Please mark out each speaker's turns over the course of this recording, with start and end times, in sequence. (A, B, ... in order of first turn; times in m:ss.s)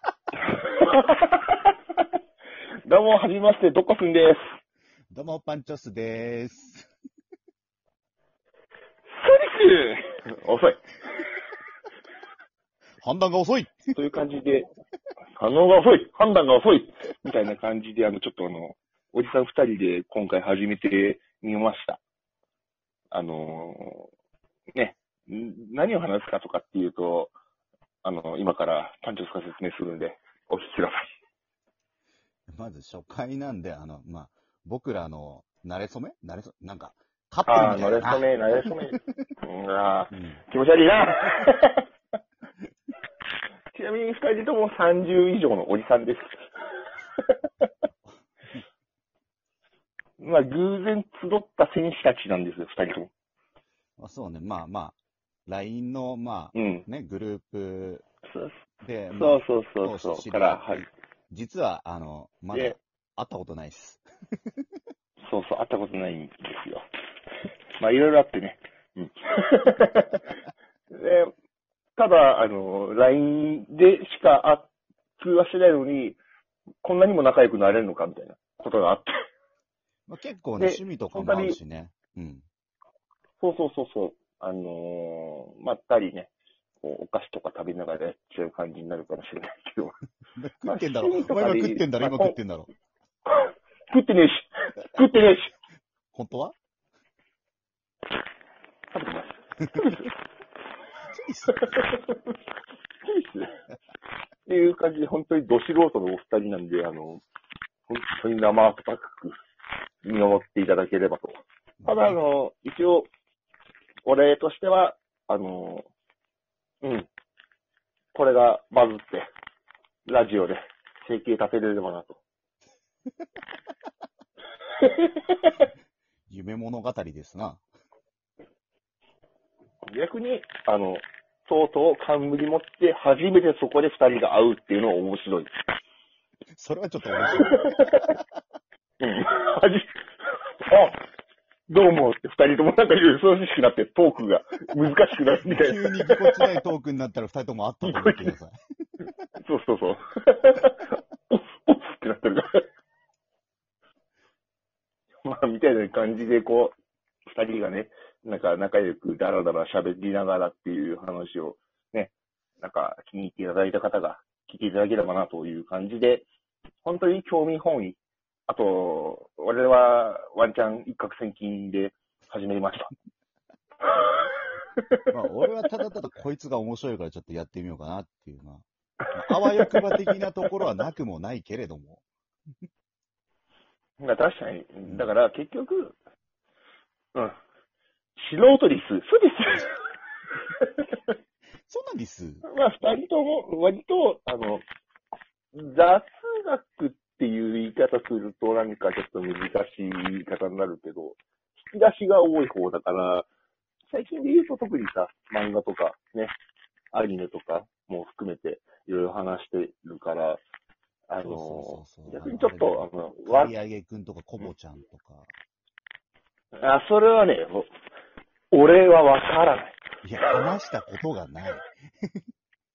0:00.5-0:01.6 A
0:02.9-0:04.4 A
0:05.1-0:06.9 B
0:09.2-0:11.2 A
0:13.0-0:13.9 B
0:13.9-0:14.7 A
0:15.4-0:22.0 A
0:23.1-0:24.1 A
0:24.8-0:27.3 A
0:28.0-0:31.1 A
0:32.5-0:39.2 B
0:37.5-0:41.8 A
0:40.1-0:40.4 B
0:43.7-0:46.4 A
0:50.2-0:53.1 A
0:54.0-0:58.0 B
0:56.5-0:56.9 A
0:58.2-0:58.6 A
0:58.8-1:04.0 B
0:59.1-1:00.9 A
1:05.3-1:06.8 A
1:07.8-1:10.3 A
1:10.9-1:11.3 A
1:12.0-1:16.2 A
1:16.8-1:19.1 A
1:20.1-1:22.4 B
1:20.6-1:21.6 A
1:23.4-1:26.3 A
1:26.8-1:30.0 A
1:30.4-1:32.7 B
1:30.6-1:32.4 A
1:33.3-1:35.5 A
1:36.1-1:36.6 B
1:38.9-1:40.1 A
1:41.1-1:41.8 B
1:41.5-1:42.2 A
1:43.0-1:43.5 A
1:44.5-1:47.2 A
1:47.9-1:49.4 A
1:50.0-1:53.1 A
1:51.8-1:52.2 B
1:54.0-1:55.9 A
1:56.8-1:57.1 A
1:58.1-1:59.3 A
2:00.0-2:02.2 A
2:04.8-2:05.7 A
2:06.3-2:07.6 B
2:09.9-2:15.5 A
2:16.6-2:18.1 B
2:17.4-2:18.1 A
2:19.0-2:21.0 A
2:21.7-2:26.5 A
2:25.4-2:28.6 B
2:27.8-2:28.4 A
2:29.4-2:32.6 A
2:35.2-2:36.8 A
2:37.3-2:46.2 A
2:46.8-2:52.9 A
2:53.8-2:54.2 A
2:55.1-3:02.0 B
2:59.1-3:00.1 A
3:04.0-3:06.0 A
3:04.9-3:05.1 B
3:08.2-3:09.8 A
3:11.7-3:12.4 B
3:12.4-3:14.6 A
3:15.5-3:23.3 A
3:23.9-3:26.3 A
3:26.9-3:30.4 A
3:31.1-3:33.5 A
3:31.2-3:35.3 B
3:36.6-3:37.7 A
3:38.5-3:39.8 A
3:40.0-3:42.2 B